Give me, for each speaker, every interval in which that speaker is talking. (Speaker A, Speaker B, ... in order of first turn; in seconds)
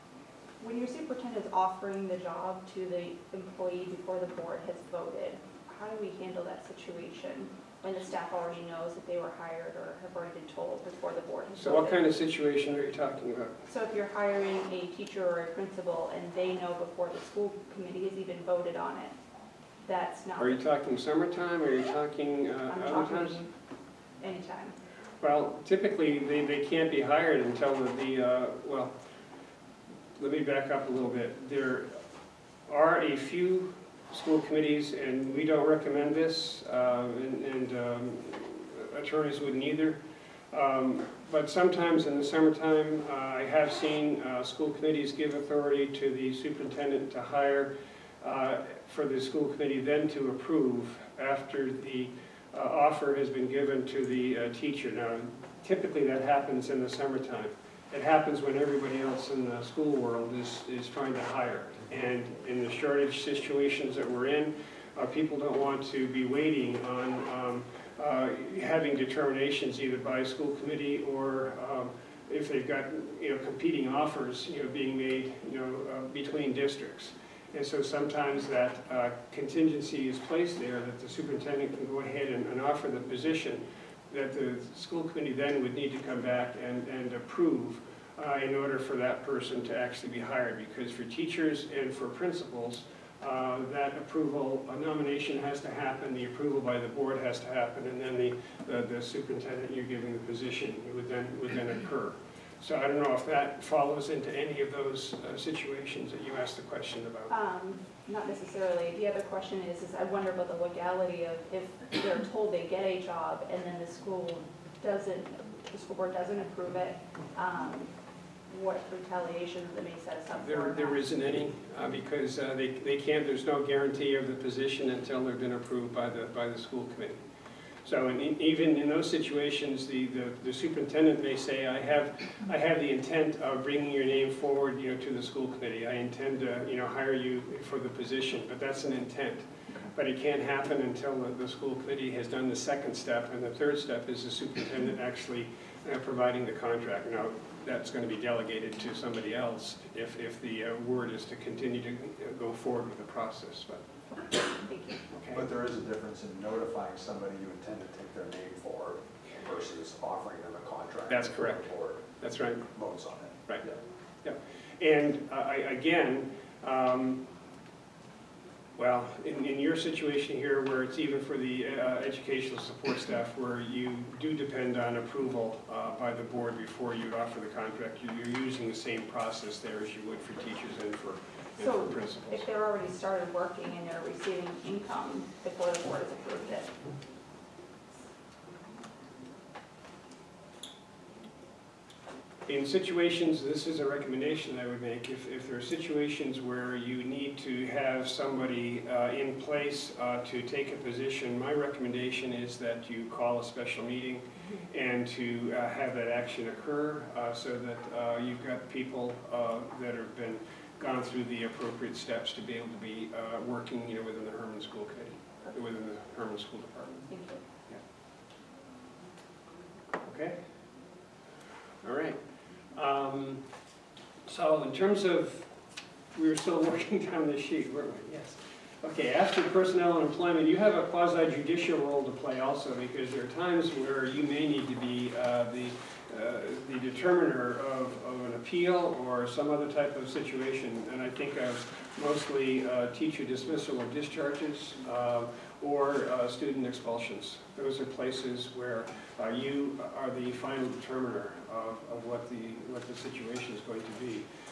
Speaker A: 0.6-12.0, 13.7-19.1, 19.8-20.6, 22.7-23.5, 24.2-24.7, 107.3-117.9, 118.5-121.0, 154.6-155.0, 181.6-186.7, 217.1-217.4
Speaker B: 11.6-13.6, 20.4-23.4, 25.2-28.9, 30.2-31.9, 32.7-40.0, 40.5-47.7, 48.2-107.3, 120.4-127.2, 127.8-153.8, 155.1-155.5, 161.1-161.6, 162.2-162.6, 164.2-167.2, 168.8-182.4, 192.5-217.1, 220.0-220.4, 221.8-222.2, 222.7-223.4, 224.2-225.5, 226.1-254.2
Speaker C: 155.3-162.2, 162.7-163.7